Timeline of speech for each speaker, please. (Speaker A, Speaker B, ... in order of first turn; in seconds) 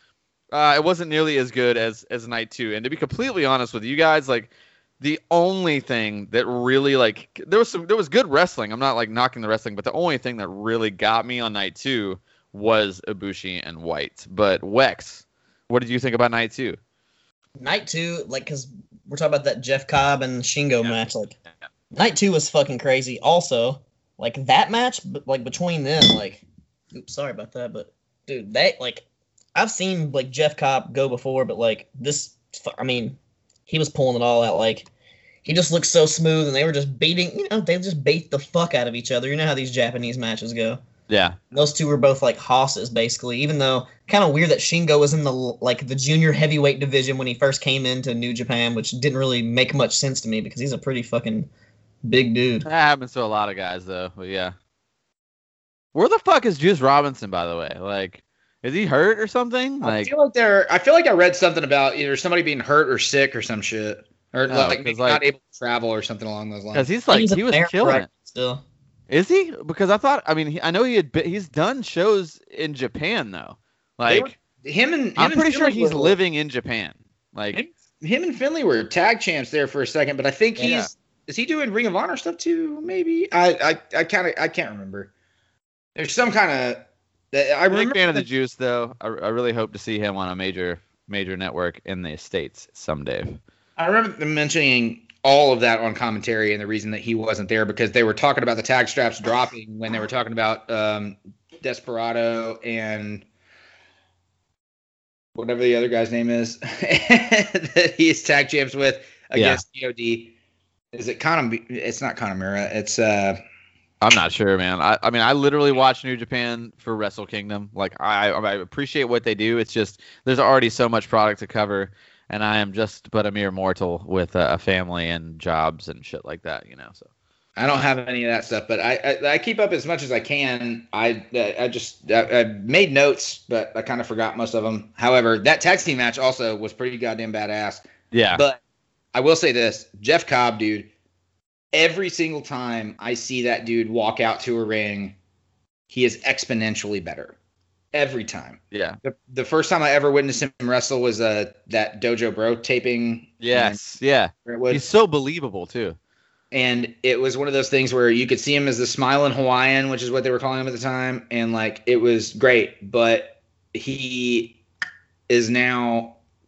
Speaker A: 0.5-16.8, 41.1-41.4, 52.6-54.5, 55.9-60.1, 64.5-65.2, 66.7-68.0, 69.1-74.3, 75.2-77.6, 80.6-80.9, 87.7-93.4, 109.3-109.6, 114.0-127.0, 138.1-138.4, 148.7-149.0, 153.4-156.0
Speaker B: 17.6-21.3, 21.9-34.9, 35.4-40.8, 41.5-51.5, 52.0-52.7, 67.1-68.6
Speaker C: 59.8-66.9, 74.1-76.2, 77.5-85.1, 86.0-88.2, 93.8-103.2, 105.3-110.3, 110.9-113.4, 127.6-138.6, 139.1-140.9, 141.7-145.2, 145.9-147.3, 147.9-153.8, 154.4-154.8, 156.5-164.6, 165.3-166.2